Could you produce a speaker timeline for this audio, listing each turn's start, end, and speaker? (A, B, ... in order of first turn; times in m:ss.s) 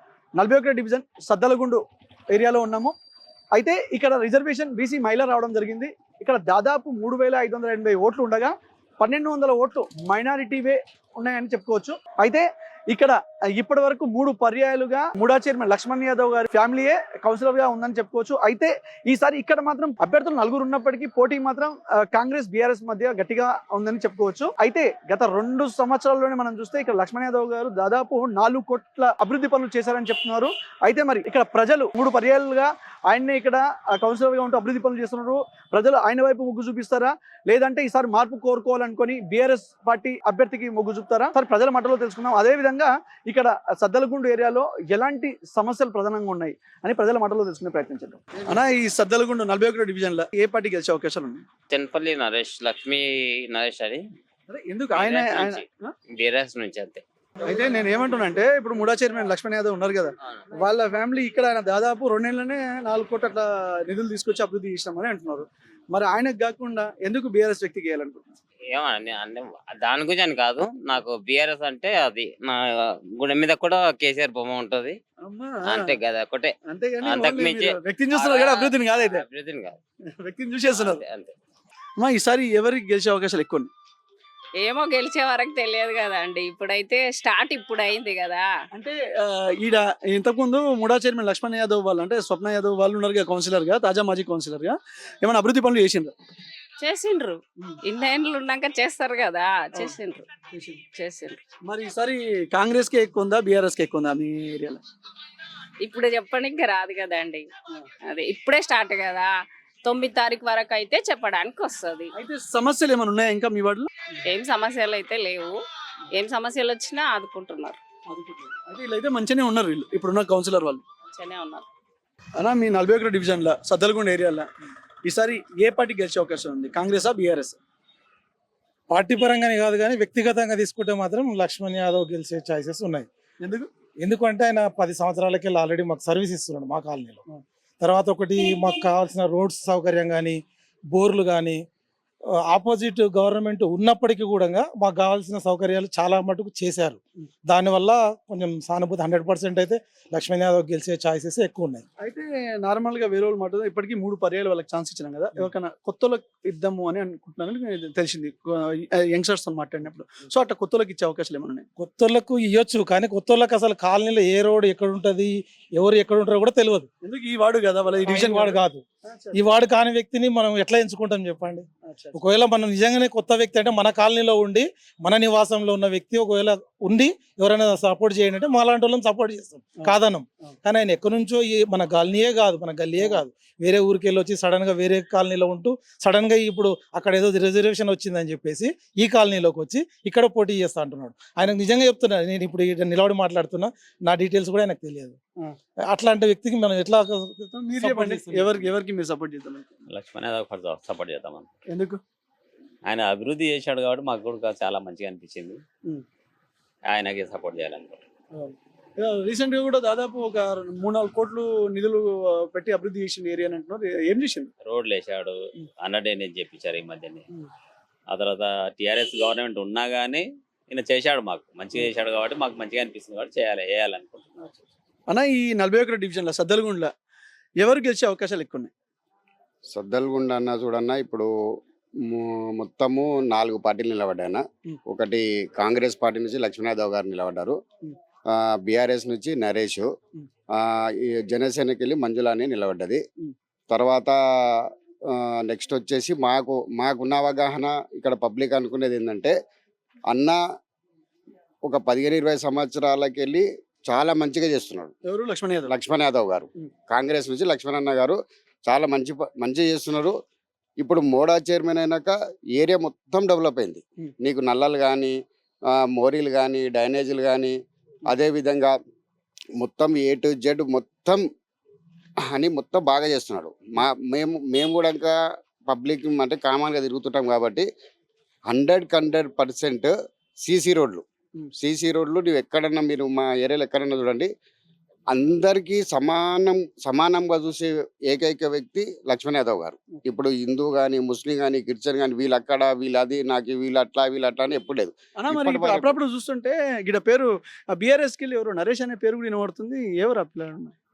0:00.4-0:02.9 A
0:03.5-0:51.4 A
0:51.7-0:54.0 B
0:54.5-0:55.9 A
0:55.0-0:55.5 B
0:56.2-0:57.0 B
0:57.4-1:08.3 A
1:08.7-1:12.6 B
1:13.2-1:15.0 B
1:15.2-1:16.0 A
1:16.0-1:16.5 B
1:16.6-1:19.3 A
1:17.1-1:17.6 B
1:18.2-1:18.6 B
1:19.3-1:19.8 B
1:20.0-1:21.0 A
1:22.0-1:23.7 A
1:24.6-1:28.5 C
1:28.7-1:36.1 A
1:36.8-1:40.3 C
1:40.5-1:40.8 A
1:40.9-1:41.4 C
1:41.6-1:44.8 A
1:45.8-1:47.5 C
1:48.0-1:52.1 C
1:52.1-1:53.9 A
1:54.2-1:55.6 C
1:56.2-1:57.8 C
1:58.1-2:00.8 A
2:01.1-2:01.6 C
2:02.4-2:04.5 A
2:05.0-2:07.6 A
2:08.9-2:13.1 D
2:13.4-2:13.7 A
2:14.0-2:17.2 D
2:17.8-2:20.4 D
2:20.9-2:21.6 D
2:22.5-2:31.8 D
2:32.0-2:41.6 A
2:41.8-2:46.9 D
2:47.0-2:49.4 A
2:48.0-3:15.2 D
2:51.8-2:52.2 A
3:15.9-3:18.6 D
3:17.5-3:19.8 A
3:19.9-3:21.4 B
3:21.7-3:22.0 A
3:22.9-3:25.6 B
3:26.9-3:28.0 B
3:28.3-3:34.5 A
3:34.6-3:37.2 B
3:38.1-3:44.2 B
3:45.1-3:46.9 A
3:47.6-3:48.7 A
3:49.7-3:51.3 E
3:52.1-3:57.6 E
3:58.3-3:59.9 E
4:01.2-4:03.0 E
4:03.7-4:04.2 E
4:05.1-4:09.3 E
4:10.1-4:10.4 E
4:11.6-4:14.9 E
4:15.0-4:15.7 A
4:15.7-4:20.1 E
4:20.8-4:25.1 E
4:25.8-4:27.6 E
4:28.1-4:28.7 E
4:29.6-4:31.2 E
4:32.3-4:35.1 E
4:35.6-4:37.6 E
4:38.5-4:44.3 E
4:45.1-4:56.0 E
4:55.2-5:00.7 A